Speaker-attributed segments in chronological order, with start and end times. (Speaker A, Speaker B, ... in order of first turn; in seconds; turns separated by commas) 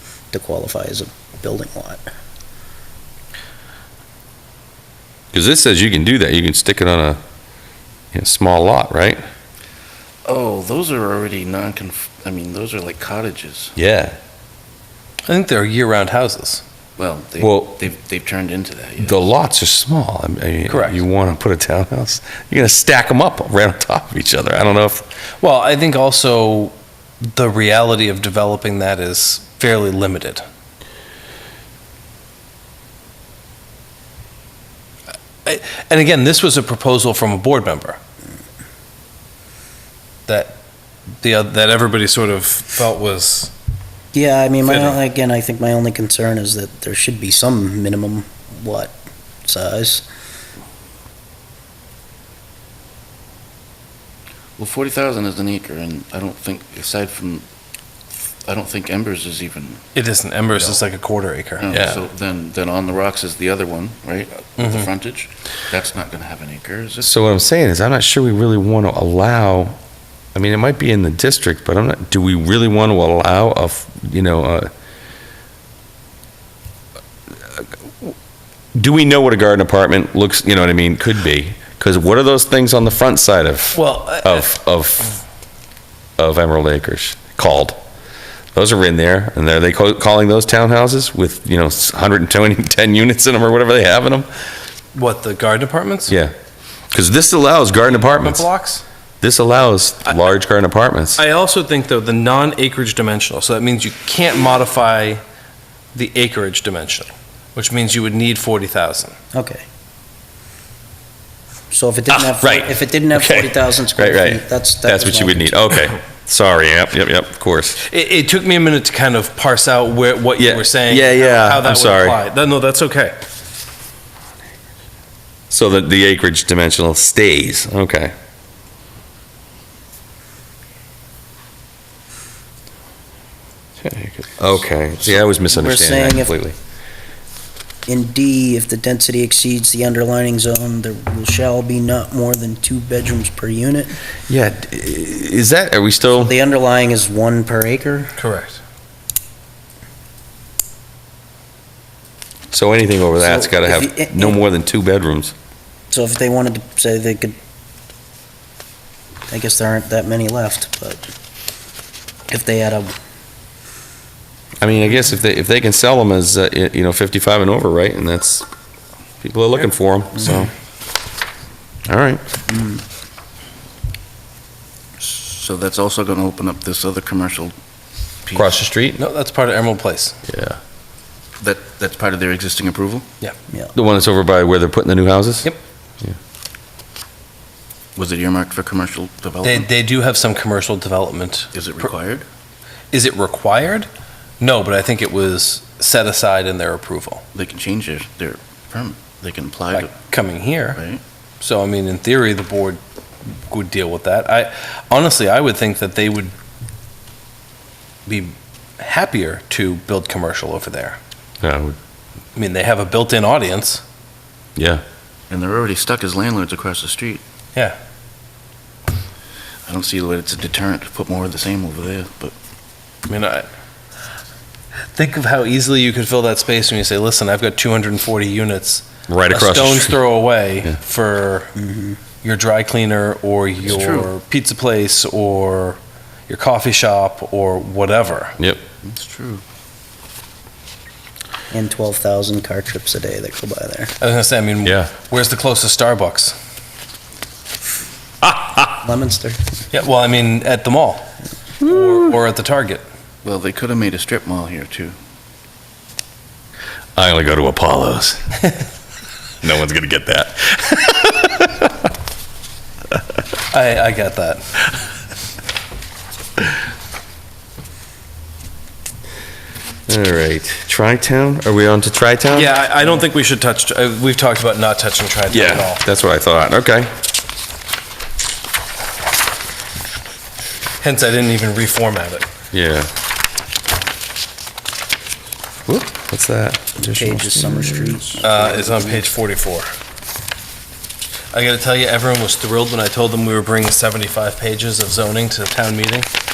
Speaker A: 0.3-2.0, Speaker B: 5.3-7.2, Speaker B: 8.1-9.2, Speaker C: 10.2-13.7, Speaker B: 13.8-14.2, Speaker D: 15.3-16.6, Speaker C: 17.0-19.2, Speaker B: 17.4-17.8, Speaker B: 19.0-25.1, Speaker D: 20.7-21.0, Speaker D: 25.4-30.4, Speaker D: 35.5-38.0, Speaker D: 40.3-40.6, Speaker D: 41.2-43.5, Speaker A: 44.1-50.0, Speaker D: 44.7-45.0, Speaker C: 54.6-57.4, Speaker C: 58.5-59.9, Speaker D: 60.0-62.0, Speaker C: 61.6-67.1, Speaker D: 64.6-64.9, Speaker B: 67.0-69.8, Speaker B: 70.3-74.7, Speaker B: 77.6-78.1, Speaker B: 78.8-85.2, Speaker D: 83.7-84.5, Speaker B: 86.2-87.8, Speaker B: 88.5-94.3, Speaker D: 94.9-96.1, Speaker B: 96.9-98.5, Speaker D: 97.9-98.8, Speaker B: 99.2-101.2, Speaker D: 101.2-105.2, Speaker D: 105.9-109.2, Speaker A: 109.3-109.6, Speaker A: 111.7-115.6, Speaker B: 112.1-117.8, Speaker D: 117.8-123.2, Speaker B: 120.4-122.2, Speaker B: 125.5-128.1, Speaker D: 133.8-134.2, Speaker B: 134.4-136.6, Speaker A: 135.5-136.3, Speaker A: 137.9-144.0, Speaker B: 144.3-146.4, Speaker A: 146.2-148.2, Speaker D: 148.2-148.6, Speaker B: 152.5-155.3, Speaker A: 153.2-154.4, Speaker A: 155.9-157.4, Speaker A: 159.3-161.0, Speaker A: 162.3-162.9, Speaker B: 164.6-168.5, Speaker B: 169.2-170.5, Speaker B: 171.9-172.2, Speaker A: 172.5-172.8, Speaker C: 175.0-177.5, Speaker C: 178.2-178.6, Speaker B: 178.3-179.0, Speaker D: 179.0-180.2, Speaker B: 180.3-180.6, Speaker C: 181.4-183.1, Speaker B: 183.7-185.5, Speaker C: 188.0-189.7, Speaker D: 189.4-191.8, Speaker C: 191.5-192.2, Speaker D: 192.9-193.9, Speaker D: 194.4-197.2, Speaker C: 197.3-199.9, Speaker D: 199.7-200.8, Speaker C: 200.8-201.0, Speaker D: 201.4-202.8, Speaker D: 203.5-206.3, Speaker D: 208.1-211.0, Speaker B: 211.4-211.8, Speaker D: 212.4-213.8, Speaker B: 214.6-214.8, Speaker C: 215.3-217.2, Speaker C: 219.7-222.3, Speaker D: 223.1-223.5, Speaker D: 224.9-231.5, Speaker B: 229.1-230.0, Speaker A: 231.6-232.0, Speaker D: 232.2-238.4, Speaker C: 233.6-234.1, Speaker C: 238.8-239.4, Speaker A: 241.5-243.9, Speaker D: 244.0-246.4, Speaker B: 244.6-244.9, Speaker B: 248.2-248.8, Speaker A: 248.8-249.4, Speaker D: 249.7-251.1, Speaker D: 251.6-252.8, Speaker C: 253.2-254.9, Speaker B: 257.0-258.2, Speaker B: 259.4-261.7, Speaker D: 263.5-264.4, Speaker B: 269.9-272.6, Speaker D: 272.3-275.8, Speaker B: 275.3-276.9, Speaker D: 280.8-282.3, Speaker B: 282.5-282.9, Speaker B: 285.7-288.2, Speaker A: 286.8-289.1, Speaker D: 288.2-289.7, Speaker D: 291.3-296.1